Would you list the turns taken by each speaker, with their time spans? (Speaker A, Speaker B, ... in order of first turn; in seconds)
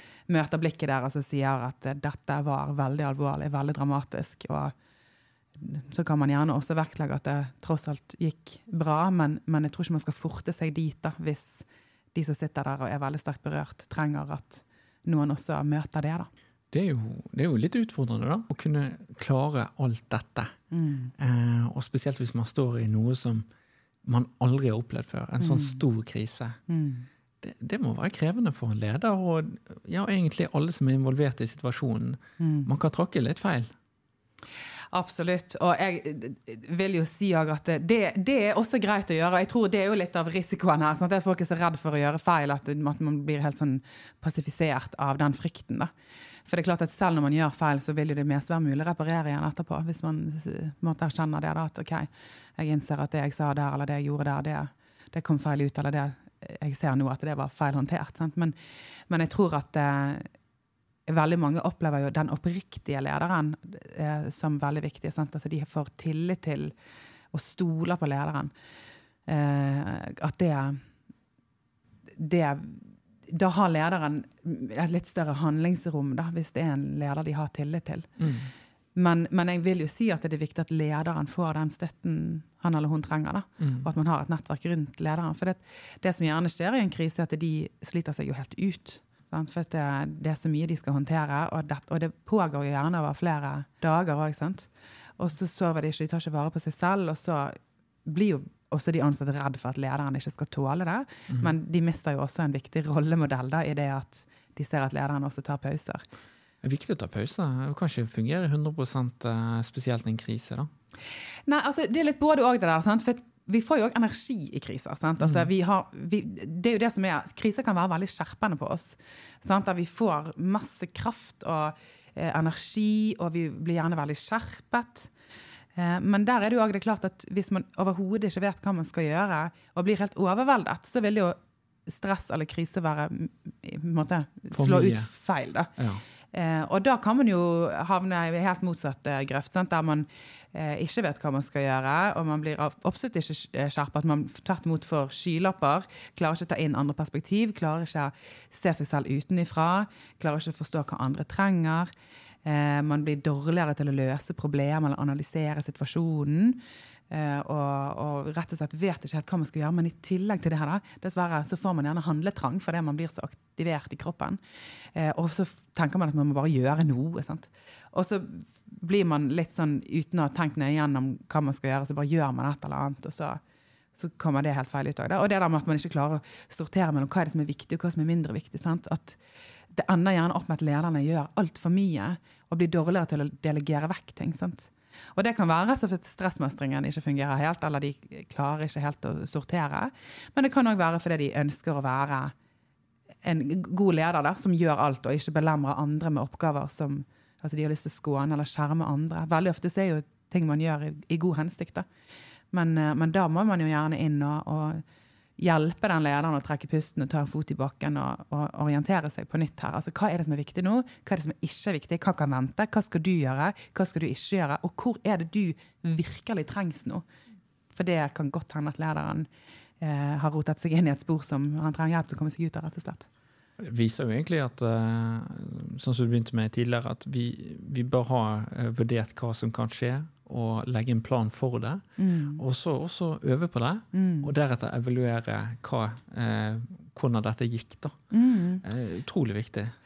Speaker A: 0.3-4.7, 5.5-16.3, 20.7-21.1, 25.4-25.8, 26.7-27.1, 32.4-32.7, 34.9-45.9, 46.5-58.5, 59.1-60.3, 61.1-66.7, 67.3-68.5, 69.2-70.8, 72.1-78.2, 78.9-106.0, 111.5-125.1, 125.7-135.7, 136.2-151.9, 152.4-164.4, 164.9-173.4, 173.9-179.2, 179.7-192.3, 193.2-201.9, 202.5-204.8, 205.4-217.0, 217.7-219.3, 219.8-223.1, 232.0-232.4, 233.9-234.3, 238.1-238.6
Speaker B: 16.7-20.5, 21.2-23.4, 24.0-26.6, 27.4-33.7, 78.2-78.5, 83.6-83.9, 106.6-110.7, 115.2-115.5, 134.5-135.1, 135.8-136.0, 223.6-238.0, 238.6-239.7